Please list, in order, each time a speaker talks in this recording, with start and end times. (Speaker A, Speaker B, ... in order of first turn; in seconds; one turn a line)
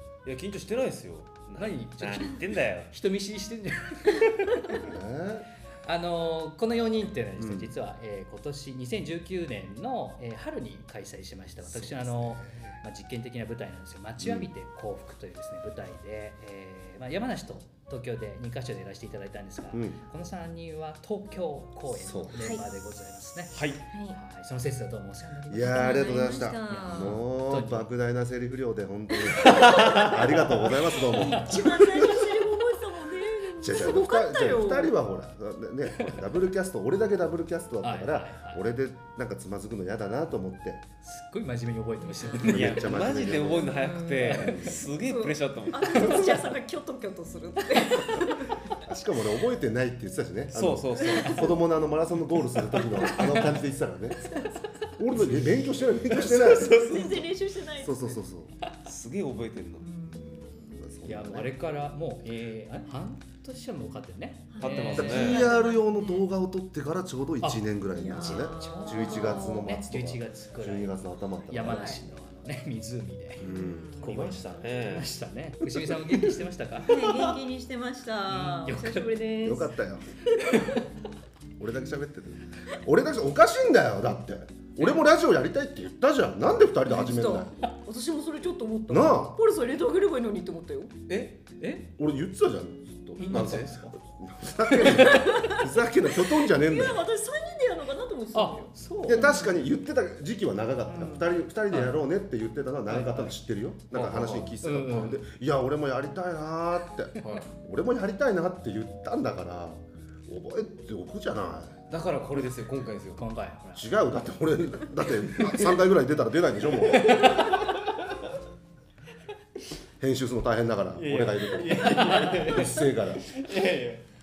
Speaker A: 0.2-2.9
Speaker B: 1.6-4.8
Speaker C: 4.7-5.5
Speaker B: 5.8-27.9
Speaker C: 7.4-7.7
Speaker C: 11.6-12.8
Speaker C: 14.2-14.5
Speaker C: 19.7-20.0
Speaker C: 22.0-22.6
Speaker D: 22.4-22.7
Speaker A: 23.5-23.8
Speaker D: 23.9-24.2
Speaker C: 25.5-32.4
Speaker D: 25.7-27.2
Speaker D: 29.4-30.0
Speaker A: 29.4-30.6
Speaker D: 30.9-35.0
Speaker B: 31.2-31.5
Speaker C: 33.6-40.8
Speaker B: 37.8-38.6
Speaker B: 41.0-43.0
Speaker D: 42.0-42.5
Speaker C: 42.4-43.8
Speaker A: 42.5-46.4
Speaker D: 43.5-48.7
Speaker B: 44.2-44.8
Speaker C: 44.4-44.8
Speaker C: 48.8-57.2
Speaker A: 50.5-51.6
Speaker D: 51.1-51.4
Speaker A: 56.1-57.3
Speaker D: 56.2-58.2
Speaker C: 57.8-58.5
Speaker A: 58.8-59.9
Speaker D: 59.8-60.8
Speaker C: 60.1-61.5
Speaker B: 61.0-65.3
Speaker D: 64.5-66.3
Speaker A: 64.6-65.5
Speaker C: 65.0-72.0
Speaker B: 67.4-77.2
Speaker D: 68.0-69.6
Speaker D: 71.6-72.0
Speaker C: 73.4-74.3
Speaker D: 73.4-74.1
Speaker A: 74.0-75.1
Speaker C: 75.6-75.9
Speaker D: 76.8-79.7
Speaker B: 78.3-79.1
Speaker C: 79.4-80.1
Speaker B: 80.4-80.8
Speaker C: 81.6-87.5
Speaker D: 86.9-91.0
Speaker C: 88.9-89.4
Speaker A: 91.1-91.5
Speaker B: 91.6-91.9
Speaker C: 92.0-97.1
Speaker B: 93.2-94.0
Speaker A: 93.2-93.7
Speaker D: 94.8-99.7
Speaker B: 94.9-95.3
Speaker B: 98.3-99.5
Speaker C: 99.0-111.8
Speaker B: 100.9-102.0
Speaker D: 101.0-101.3
Speaker B: 102.9-103.4
Speaker A: 103.9-104.5
Speaker B: 104.6-105.2
Speaker A: 107.2-107.5
Speaker A: 111.9-113.2
Speaker B: 113.2-113.9
Speaker C: 113.8-117.5
Speaker A: 115.4-115.7
Speaker B: 116.9-117.6
Speaker C: 120.0-123.3
Speaker A: 120.9-124.0
Speaker B: 122.0-122.4